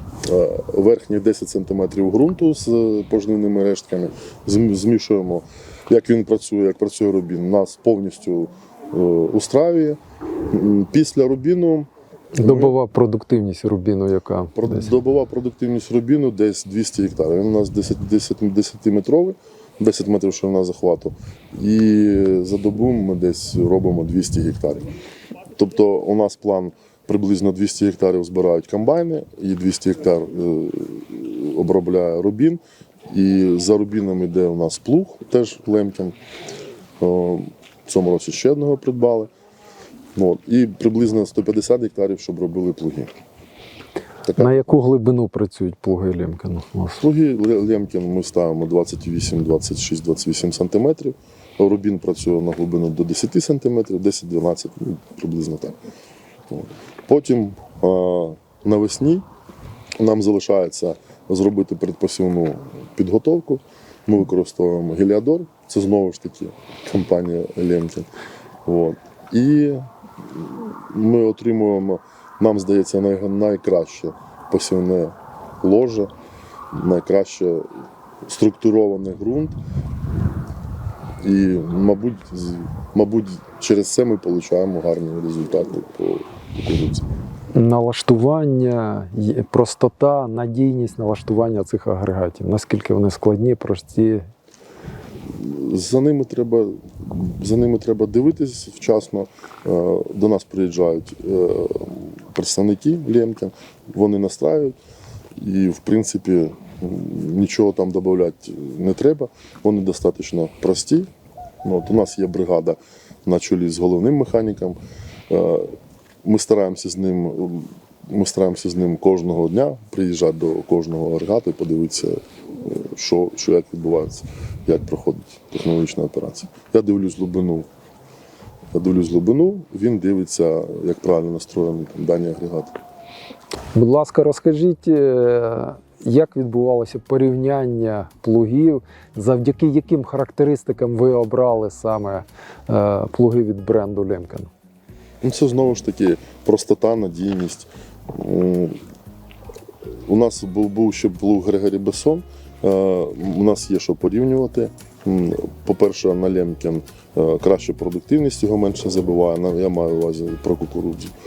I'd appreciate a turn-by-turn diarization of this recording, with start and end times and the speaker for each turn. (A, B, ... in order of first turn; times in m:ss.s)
0:00.2-0:10.0 A
0:10.5-0:12.8 A
0:12.4-0:14.9 B
0:14.6-0:24.9 A
0:25.6-0:36.2 A
0:37.0-0:39.3 A
0:40.2-0:43.1 A
0:44.2-0:44.7 A
0:44.4-0:47.0 B
0:47.0-0:55.8 A
0:56.5-0:59.2 A
1:00.0-1:08.1 A
1:08.6-1:16.1 A
1:16.7-1:17.7 A
1:18.2-1:19.6 A
1:21.2-1:27.1 A
1:27.5-1:34.3 B
1:35.3-1:44.8 A
1:45.4-1:51.1 A
1:51.6-1:54.8 A
1:55.3-2:07.7 A
2:08.8-2:12.8 A
2:13.7-2:24.5 B
2:25.2-2:28.8 A
2:30.1-2:41.1 A